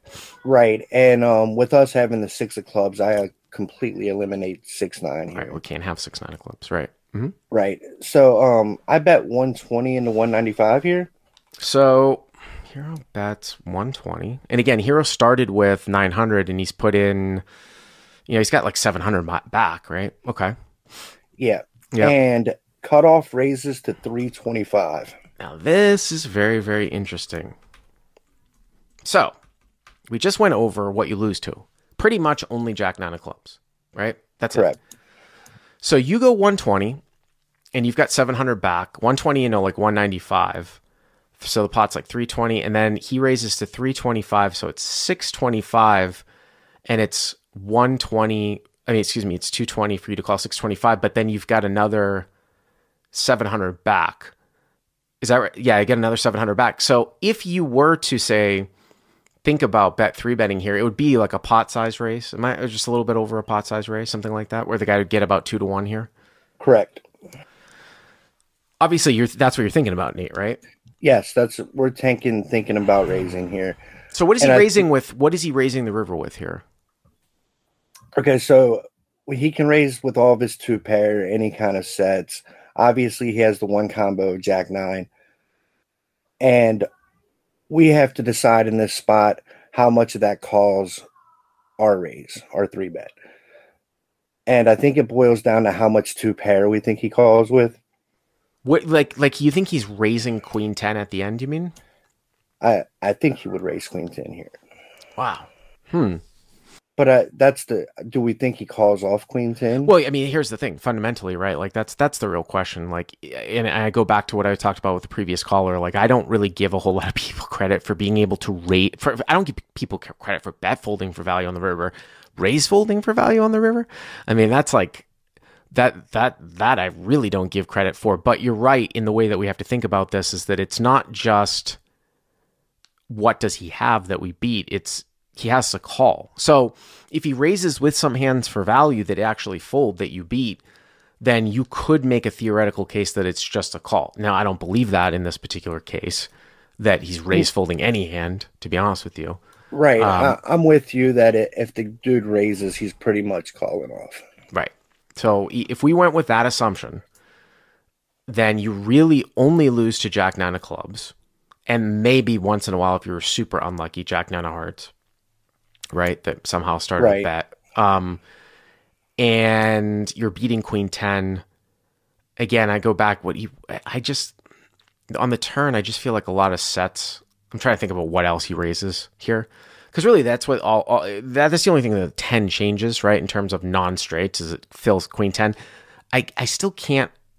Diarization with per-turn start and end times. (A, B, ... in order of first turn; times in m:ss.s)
0:00.4-0:05.6 A
0:05.3-0:07.3 B
0:07.5-0:11.1 A
0:11.6-0:17.4 B
0:18.3-0:20.5 B
0:21.4-0:25.1 A
0:25.4-0:27.5 B
0:29.0-0:29.3 B
0:30.1-0:34.7 B
0:35.8-0:37.0 B
0:37.7-0:40.8 B
0:41.4-0:46.2 B
0:46.9-0:52.3 B
0:53.1-0:54.3 B
0:55.2-0:58.7 B
0:59.4-1:06.1 B
1:06.6-1:07.0 A
1:08.8-1:10.6 B
1:11.0-1:13.8 A
1:14.1-1:16.6 B
1:14.4-1:14.8 A
1:18.2-1:25.1 A
1:26.4-1:26.8 A
1:27.7-1:31.0 A
1:31.8-1:33.1 A
1:34.5-1:37.8 A
1:38.6-1:41.7 B
1:42.6-1:44.6 A
1:45.2-1:46.2 B
1:47.0-1:49.9 A
1:49.8-2:05.0 B
2:05.7-2:11.8 B
2:13.1-2:20.6 B
2:21.2-2:29.4 B
2:29.7-2:34.2 A
2:30.0-2:30.4 B
2:34.5-2:37.0 B
2:38.3-2:41.1 B
2:41.7-2:44.9 B
2:45.9-2:48.2 B
2:47.0-2:47.3 A
2:49.2-2:51.4 B
2:52.4-2:54.3 B
2:55.1-3:05.6 B
3:06.1-3:07.1 B